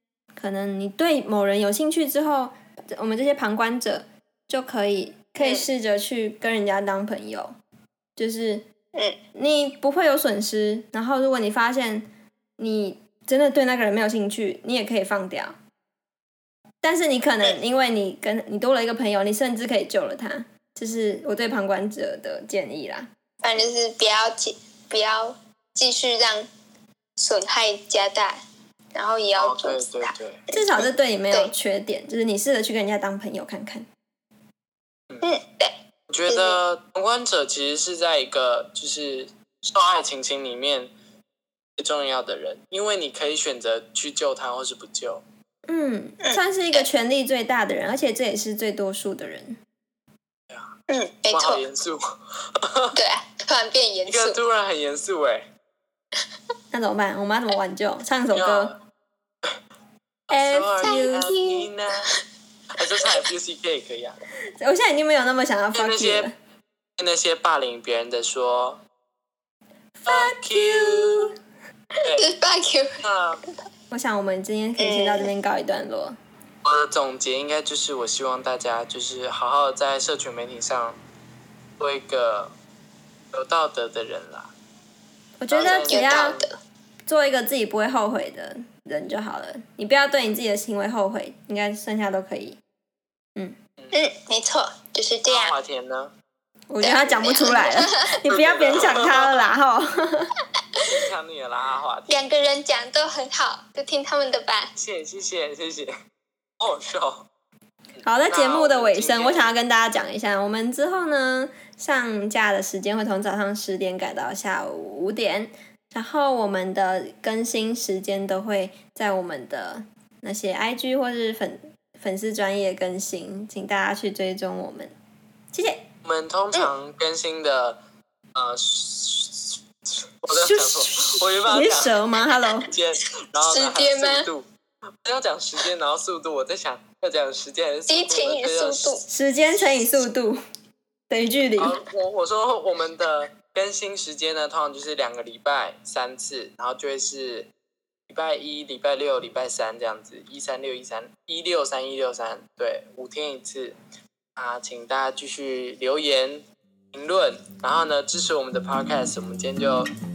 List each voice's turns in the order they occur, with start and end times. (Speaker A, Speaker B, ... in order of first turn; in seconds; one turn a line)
Speaker A: 0.3-7.5
Speaker B: 5.4-5.7
Speaker A: 8.2-8.7
Speaker A: 9.3-12.1
Speaker A: 12.6-15.5
Speaker A: 16.8-23.1
Speaker B: 23.4-26.5
Speaker B: 27.2-28.4
Speaker B: 28.9-31.5
Speaker C: 29.4-30.4
Speaker A: 30.5-33.9
Speaker B: 35.2-35.8
Speaker C: 36.1-40.9
Speaker B: 36.3-36.6
Speaker C: 41.8-45.2
Speaker A: 45.7-49.6
Speaker B: 46.2-46.8
Speaker B: 50.9-51.6
Speaker C: 51.3-52.0
Speaker C: 52.5-53.0
Speaker B: 52.9-54.4
Speaker C: 54.1-55.5
Speaker A: 56.7-58.7
Speaker C: 58.3-58.8
Speaker C: 60.3-62.1
Speaker A: 60.3-61.2
Speaker B: 60.8-62.1
Speaker C: 62.7-64.2
Speaker A: 64.6-66.3
Speaker C: 65.7-66.3
Speaker C: 67.0-68.8
Speaker A: 70.0-71.3
Speaker C: 70.0-71.3
Speaker C: 72.0-72.3
Speaker B: 72.0-73.0
Speaker C: 73.0-73.4
Speaker A: 73.9-76.2
Speaker B: 74.8-75.3
Speaker C: 76.6-81.0
Speaker C: 81.8-82.5
Speaker C: 83.3-84.5
Speaker A: 85.4-86.4
Speaker C: 85.5-86.4
Speaker B: 85.6-86.6
Speaker A: 87.1-92.6
Speaker B: 93.9-95.5
Speaker C: 95.3-96.1
Speaker A: 96.7-100.3
Speaker B: 96.8-98.0
Speaker C: 98.3-99.4
Speaker C: 100.9-102.2
Speaker B: 102.1-104.7
Speaker C: 104.8-105.9
Speaker C: 106.6-107.3
Speaker A: 108.0-124.9
Speaker C: 108.3-109.5
Speaker A: 125.5-125.8
Speaker C: 126.0-127.8
Speaker C: 128.3-132.0
Speaker A: 130.3-132.7
Speaker C: 132.7-134.5
Speaker B: 133.4-134.3
Speaker C: 135.0-138.9
Speaker B: 137.9-139.0
Speaker A: 139.1-140.4
Speaker A: 141.1-141.8
Speaker C: 141.6-147.5
Speaker C: 148.1-153.8
Speaker C: 154.3-159.9